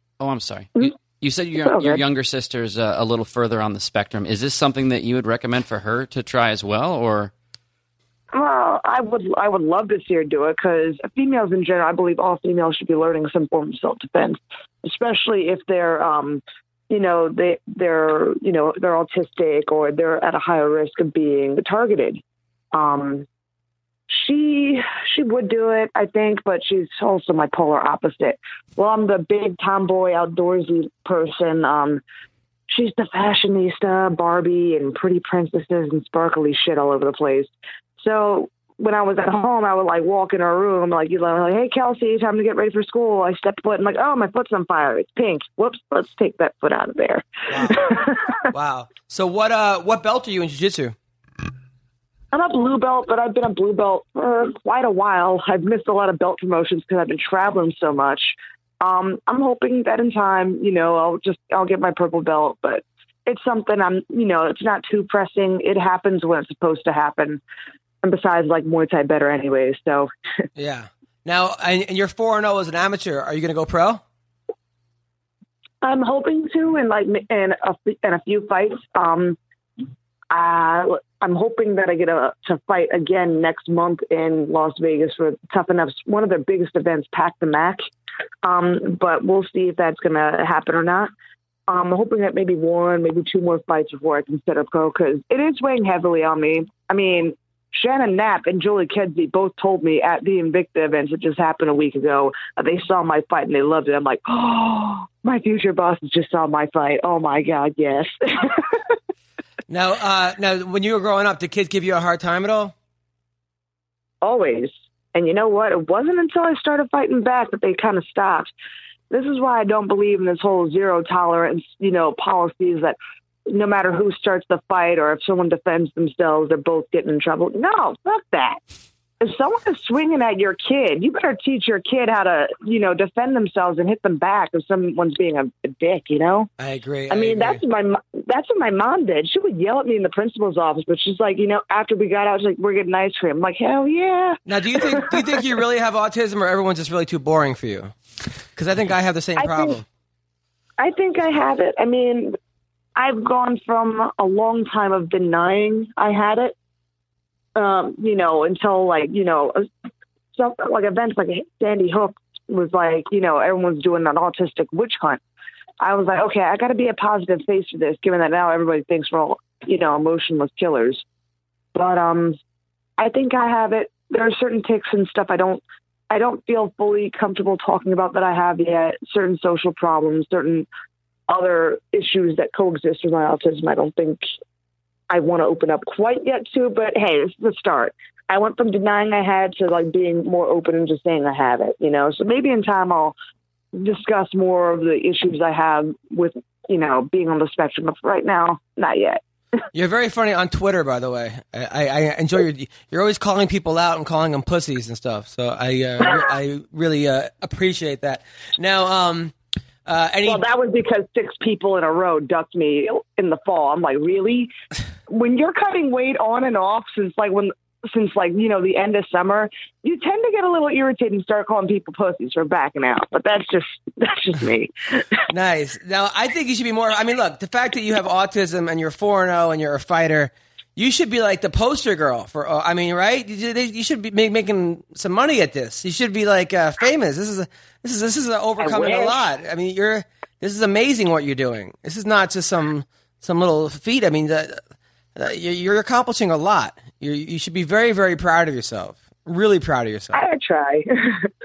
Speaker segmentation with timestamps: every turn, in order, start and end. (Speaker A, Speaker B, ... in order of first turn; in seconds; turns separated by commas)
Speaker A: 0.2-7.3, Speaker B: 1.6-2.0, Speaker B: 8.3-22.2, Speaker B: 22.7-23.2, Speaker B: 24.1-32.0, Speaker B: 32.7-48.5, Speaker C: 47.5-47.8, Speaker C: 48.5-50.9, Speaker B: 52.3-67.4, Speaker B: 68.0-70.1, Speaker C: 70.6-74.0, Speaker B: 75.8-79.4, Speaker B: 80.3-87.8, Speaker B: 88.4-91.1, Speaker B: 91.7-108.8, Speaker C: 109.7-112.7, Speaker B: 114.2-118.5, Speaker B: 119.1-123.0, Speaker B: 123.5-128.6, Speaker B: 129.2-136.5, Speaker C: 136.6-137.6, Speaker B: 137.1-145.4, Speaker C: 144.5-147.9, Speaker C: 148.5-149.8, Speaker B: 149.4-149.8, Speaker B: 150.8-152.3, Speaker B: 152.9-156.5, Speaker B: 157.6-159.7, Speaker B: 160.3-165.2, Speaker B: 165.8-171.0, Speaker B: 171.7-172.4, Speaker B: 173.0-180.7, Speaker B: 181.3-184.2, Speaker B: 185.1-193.1, Speaker B: 193.7-199.2, Speaker C: 199.7-209.3, Speaker C: 209.8-210.4, Speaker B: 210.2-214.5, Speaker B: 215.1-225.2, Speaker C: 225.3-244.6, Speaker B: 238.6-239.2, Speaker C: 245.2-250.2, Speaker B: 250.1-251.3